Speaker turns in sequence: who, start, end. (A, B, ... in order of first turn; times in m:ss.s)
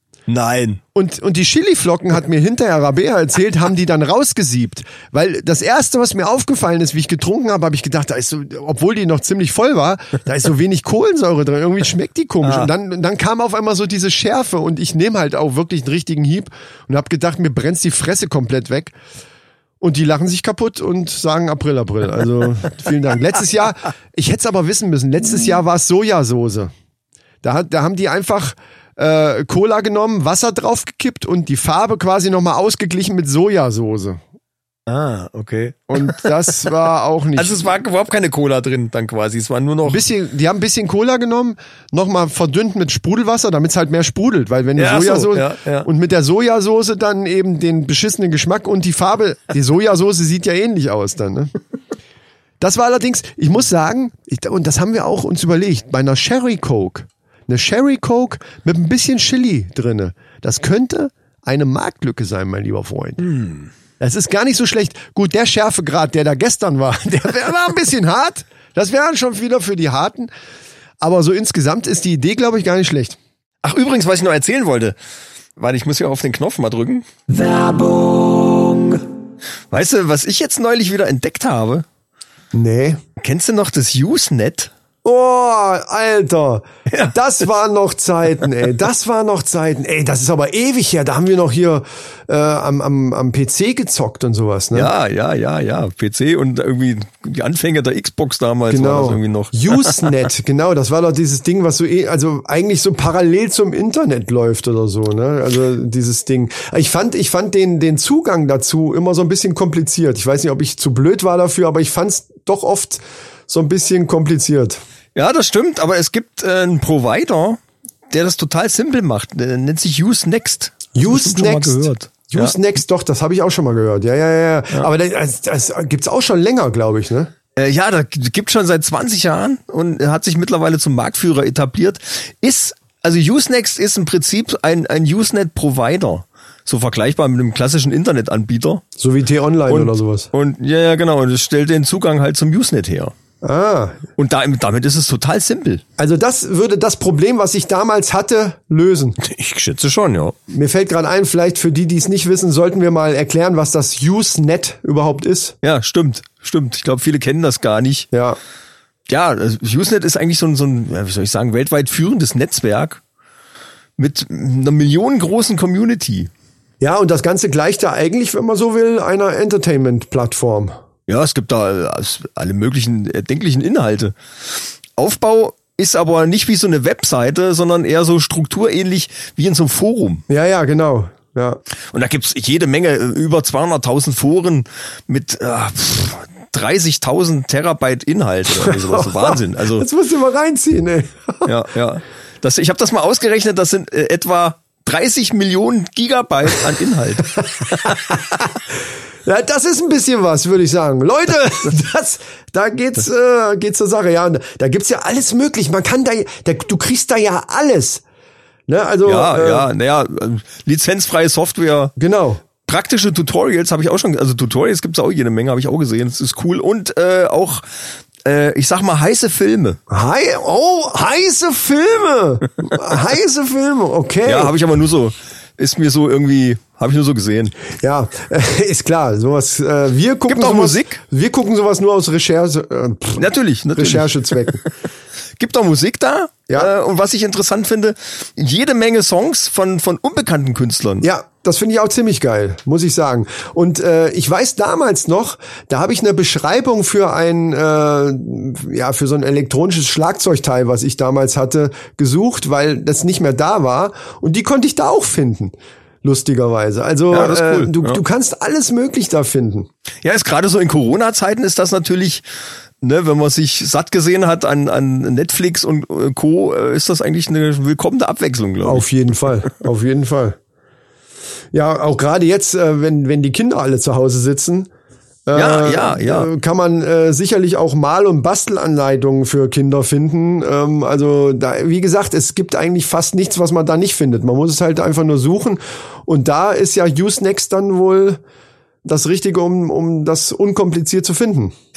0:00.3-0:00.8 A
0:01.0-0:19.0 B
0:12.4-0:12.7 A
0:19.8-0:26.7 B
0:27.4-0:34.2 B
0:34.9-0:36.7 A
0:35.9-0:37.7 B
0:37.4-0:40.0 A
0:39.9-0:51.5 B
0:44.8-0:45.9 A
0:52.6-1:03.3 B
1:03.2-1:03.7 A
1:04.0-1:10.3 B
1:11.0-1:13.2 B
1:13.6-1:15.0 A
1:15.6-1:19.0 A
1:19.7-1:21.9 A
1:22.5-1:23.0 B
1:23.2-1:24.7 A
1:25.0-1:34.9 B
1:26.9-1:27.2 A
1:34.7-1:40.1 A
1:38.7-1:54.8 B
1:55.2-2:02.6 A
2:01.0-2:07.3 B
2:07.6-2:18.8 A
2:19.0-2:20.3 B
2:19.7-2:23.1 A
2:23.4-2:24.0 B
2:24.2-2:25.8 A
2:26.0-2:29.2 B
2:29.2-2:30.4 A
2:30.5-2:35.6 B
2:35.6-2:38.1 A
2:38.1-2:38.4 B
2:39.1-2:43.0 A
2:44.0-2:46.3 A
2:46.8-2:50.8 B
2:51.1-2:54.2 A
2:55.0-3:00.2 A
3:00.3-3:01.6 B
3:01.9-3:09.9 A
3:08.6-3:11.5 B
3:11.4-3:17.4 A
3:17.6-3:18.5 B
3:19.2-3:28.0 B
3:28.7-3:29.7 B
3:29.0-3:31.9 A
3:32.0-3:32.4 B
3:32.6-3:37.6 A
3:38.2-3:39.8 A
3:39.9-3:44.5 B
3:44.2-3:47.5 A
3:47.8-3:54.6 B
3:50.3-3:51.0 A
3:53.2-3:54.6 A
3:55.4-4:01.1 A
4:01.0-4:19.7 B
4:17.1-4:18.0 A
4:20.0-4:22.2 A
4:22.8-4:28.9 A
4:28.6-4:30.4 B
4:31.5-4:34.7 B
4:35.3-4:48.2 B
4:35.4-4:36.3 A
4:48.8-4:51.6 B